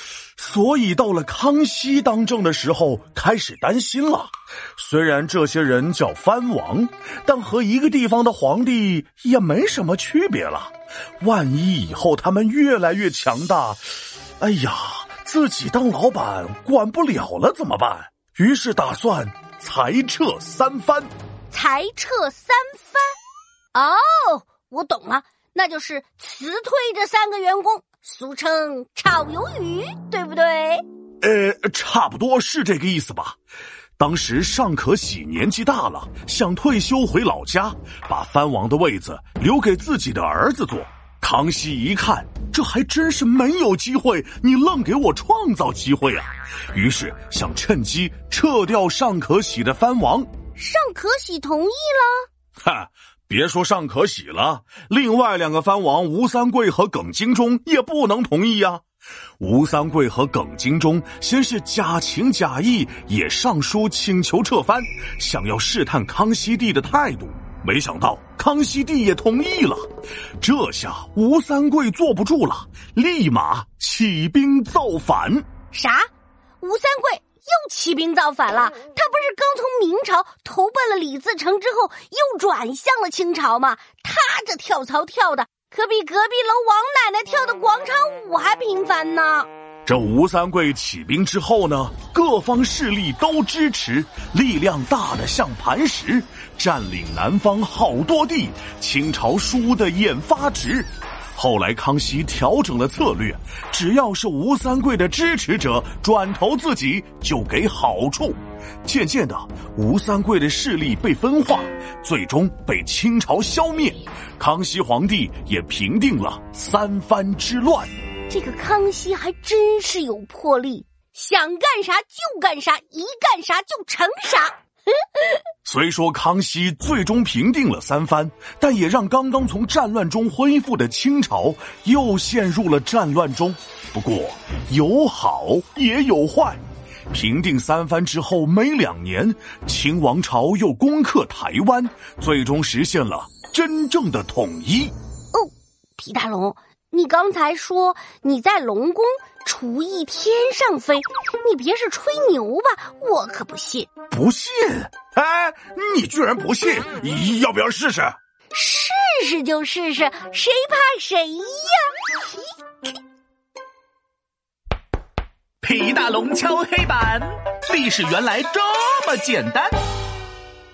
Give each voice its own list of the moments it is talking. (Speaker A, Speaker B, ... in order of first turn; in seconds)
Speaker A: 0.4-13.8, 14.4-21.1, 31.2-33.4, 34.0-50.3, 52.6-58.8, 59.4-69.8, 70.4-75.5, 89.8-117.9, 125.6-144.9, 154.1-158.2
Speaker B: 21.5-23.1, 23.7-30.8, 50.5-52.2, 75.7-76.1, 76.6-89.5, 118.3-125.4, 145.3-153.9, 158.5-162.2
Speaker C: 165.6-169.7